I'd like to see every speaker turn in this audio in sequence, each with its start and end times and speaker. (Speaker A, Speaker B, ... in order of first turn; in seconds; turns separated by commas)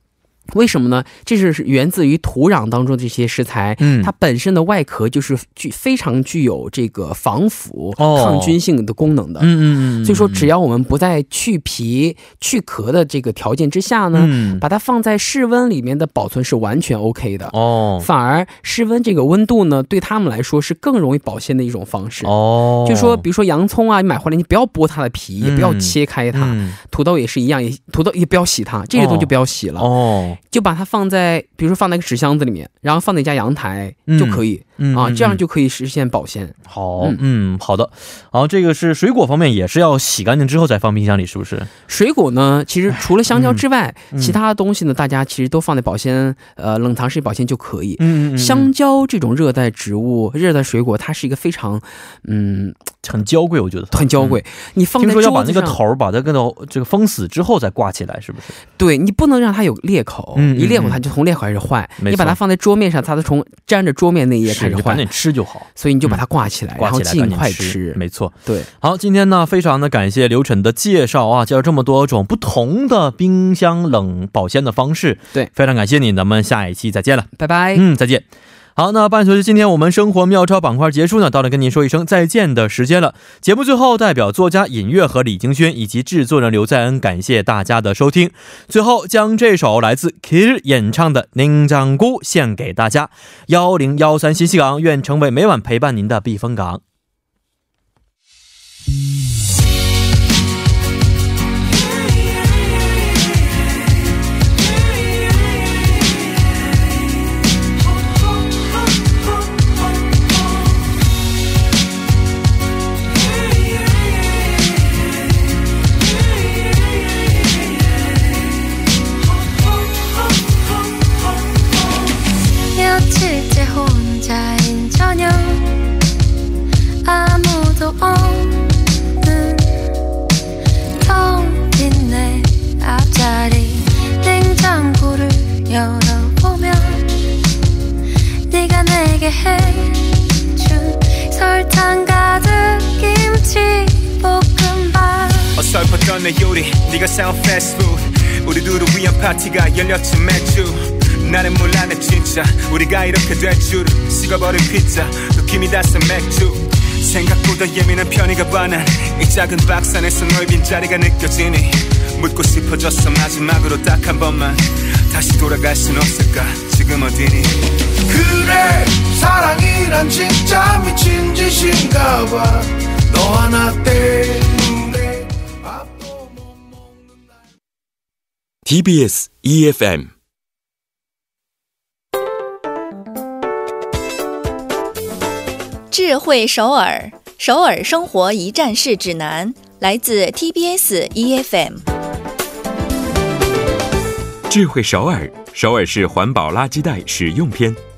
Speaker A: 0.5-22.3, Speaker B: 3.8-4.1, Speaker B: 8.0-8.6, Speaker B: 9.4-10.5, Speaker B: 14.1-14.6, Speaker B: 17.5-18.1, Speaker B: 22.2-23.2, Speaker A: 22.9-29.9, Speaker B: 25.4-26.8, Speaker B: 28.9-30.4, Speaker A: 30.4-37.2, Speaker B: 34.1-35.4, Speaker B: 36.7-41.7, Speaker A: 41.9-52.8, Speaker B: 43.0-44.4, Speaker B: 48.0-48.7, Speaker B: 53.0-54.4, Speaker A: 53.9-55.8, Speaker B: 55.0-58.5, Speaker A: 58.8-65.0, Speaker B: 60.4-61.0, Speaker B: 62.0-62.4, Speaker B: 64.5-66.2, Speaker A: 65.8-68.7, Speaker B: 66.8-78.2, Speaker A: 77.4-77.8, Speaker B: 78.8-96.8, Speaker C: 122.7-125.8, Speaker C: 127.0-129.9, Speaker C: 131.0-137.2, Speaker C: 138.5-145.6, Speaker D: 145.6-167.6, Speaker E: 168.3-171.8, Speaker E: 173.2-174.8, Speaker F: 178.7-180.1, Speaker G: 185.9-191.8, Speaker F: 194.5-197.8